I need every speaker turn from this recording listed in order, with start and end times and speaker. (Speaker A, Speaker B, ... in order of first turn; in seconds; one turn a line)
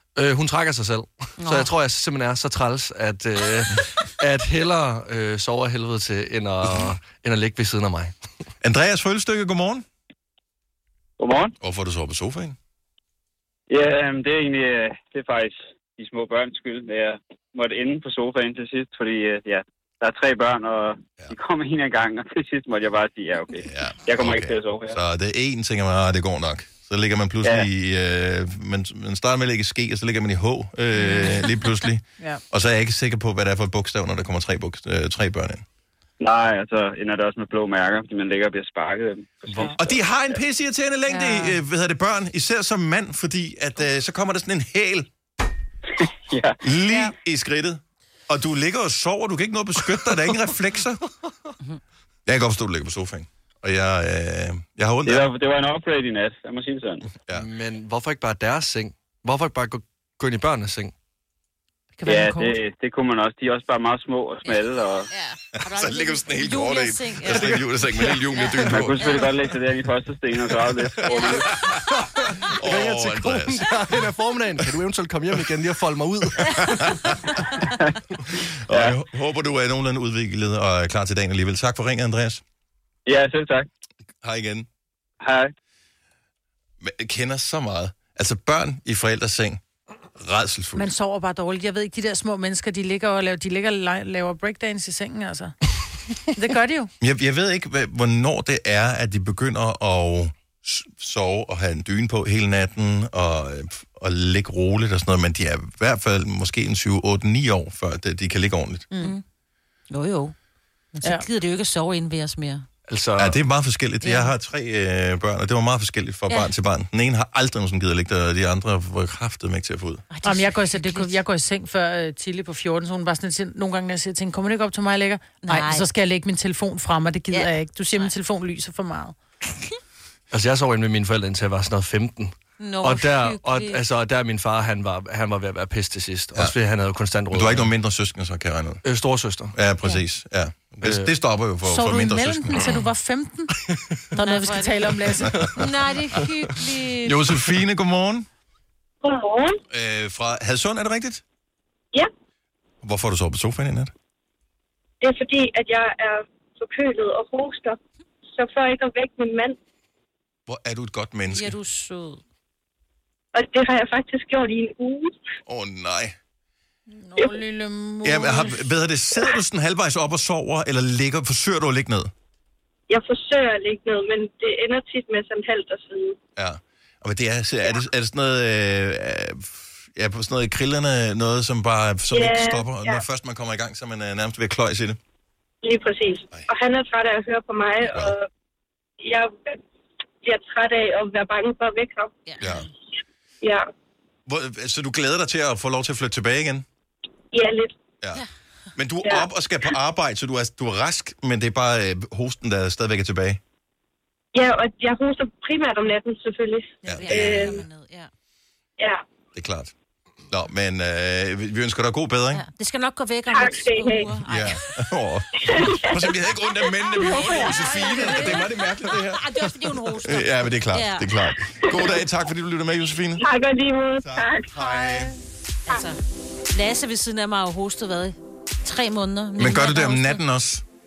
Speaker A: 0.1-8.1
Speaker B: 1.4-1.7
Speaker C: 8.6-9.8
Speaker D: 11.2-11.5
Speaker C: 11.6-12.6
Speaker D: 13.7-25.0
Speaker C: 23.6-35.6
Speaker E: 31.1-31.4
Speaker D: 36.2-39.4
Speaker C: 39.8-45.1
Speaker E: 41.1-41.5
Speaker D: 46.3-46.6
Speaker C: 46.6-51.0
Speaker C: 52.2-55.3
Speaker D: 55.0-57.0
Speaker A: 57.3-60.9
Speaker E: 62.0-62.6
Speaker D: 62.0-65.0
Speaker B: 64.4-67.6
Speaker C: 65.6-69.2
Speaker A: 67.3-68.2
Speaker B: 68.3-69.3
Speaker D: 68.7-71.3
Speaker A: 71.0-77.1
Speaker B: 71.0-71.4
Speaker C: 72.5-73.7
Speaker C: 76.4-77.1
Speaker C: 78.5-82.4
Speaker D: 83.0-83.7
Speaker C: 84.2-84.7
Speaker D: 85.2-85.5
Speaker C: 86.8-89.6
Speaker C: 90.2-90.9
Speaker E: 90.7-95.5
Speaker E: 96.3-96.9
Speaker C: 97.0-108.9
Speaker B: 109.9-110.3
Speaker B: 111.0-112.6
Speaker A: 112.9-113.4
Speaker C: 113.2-120.0
Speaker B: 114.0-114.3
Speaker B: 120.1-121.2
Speaker E: 120.2-129.2
Speaker B: 125.4-125.8
Speaker B: 127.3-128.1
Speaker A: 130.3-137.7
Speaker B: 132.6-133.8
Speaker C: 137.3-138.8
Speaker A: 138.8-139.5
Speaker C: 139.5-142.8
Speaker A: 140.8-141.1
Speaker E: 141.6-143.5
Speaker E: 144.1-145.3
Speaker B: 144.2-145.0
Speaker C: 145.3-145.7
Speaker B: 145.5-147.2
Speaker C: 147.0-148.3
Speaker F: 149.0-149.6
Speaker C: 149.7-151.2
Speaker C: 152.8-153.9
Speaker F: 155.0-157.8
Speaker F: 158.3-159.6
Speaker C: 160.5-161.5
Speaker B: 161.3-162.2
Speaker F: 163.3-165.1
Speaker C: 165.4-166.2
Speaker E: 166.9-168.6
Speaker C: 168.0-172.1
Speaker F: 172.9-176.2
Speaker C: 176.3-185.0
Speaker F: 182.1-183.0
Speaker F: 185.6-188.2
Speaker F: 189.0-189.6
Speaker F: 190.2-192.1
Speaker B: 192.3-192.7
Speaker C: 192.4-192.7
Speaker F: 193.4-193.7
Speaker C: 194.2-196.7
Speaker F: 197.3-197.7
Speaker C: 198.8-203.4
Speaker F: 204.3-207.6
Speaker C: 206.8-207.6
Speaker B: 206.9-208.1
Speaker C: 209.3-209.7
Speaker C: 210.3-212.4
Speaker B: 212.3-214.6
Speaker F: 213.3-214.1
Speaker C: 214.2-223.2
Speaker F: 215.4-216.0
Speaker B: 217.0-221.1
Speaker B: 221.7-222.0
Speaker F: 223.2-224.5
Speaker C: 224.0-225.1
Speaker B: 225.7-226.0
Speaker B: 226.5-230.2
Speaker C: 229.4-230.6